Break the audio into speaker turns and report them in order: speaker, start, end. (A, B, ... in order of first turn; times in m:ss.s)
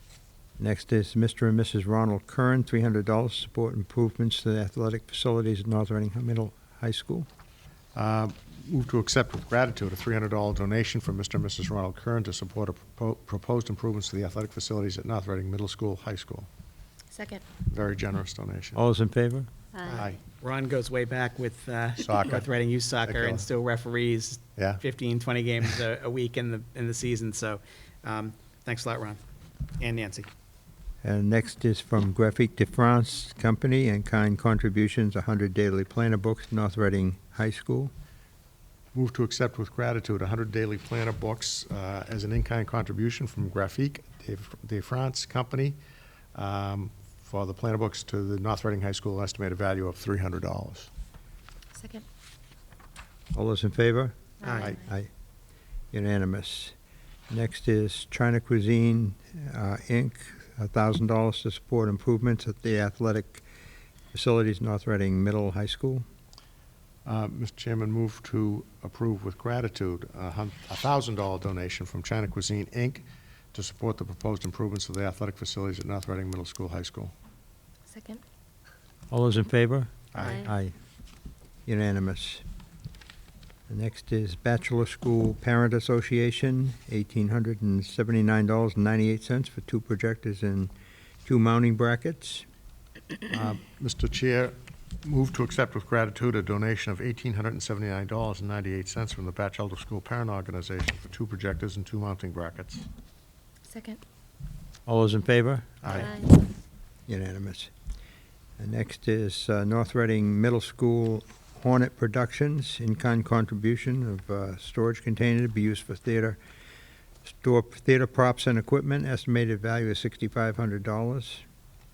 0:00.6-0:07.3 A
0:07.9-0:16.5 B
0:17.1-0:17.4 C
0:17.7-0:18.8 B
0:18.7-0:19.5 A
0:19.8-0:29.2 D
0:22.0-0:22.5 B
0:23.0-0:23.4 B
0:24.6-0:24.8 B
0:29.8-0:30.3 D
0:31.0-0:37.9 A
0:38.9-0:45.8 B
0:46.3-0:50.9 B
0:51.7-0:52.0 C
0:53.3-0:55.1 A
0:54.4-0:54.8 C
0:54.6-0:54.8 B
0:55.9-0:56.7 A
0:57.3-1:03.4 A
1:04.1-1:06.0 A
1:07.0-1:17.1 B
1:17.9-1:18.2 C
1:19.1-1:20.7 A
1:20.1-1:20.5 B
1:20.2-1:20.5 C
1:21.6-1:22.4 A
1:23.7-1:30.7 A
1:31.2-1:32.4 A
1:33.3-1:42.8 B
1:43.7-1:44.0 C
1:44.9-1:46.0 A
1:45.8-1:46.2 B
1:45.9-1:46.3 C
1:47.1-1:47.7 A
1:48.6-1:56.4 A
1:57.2-2:01.4 A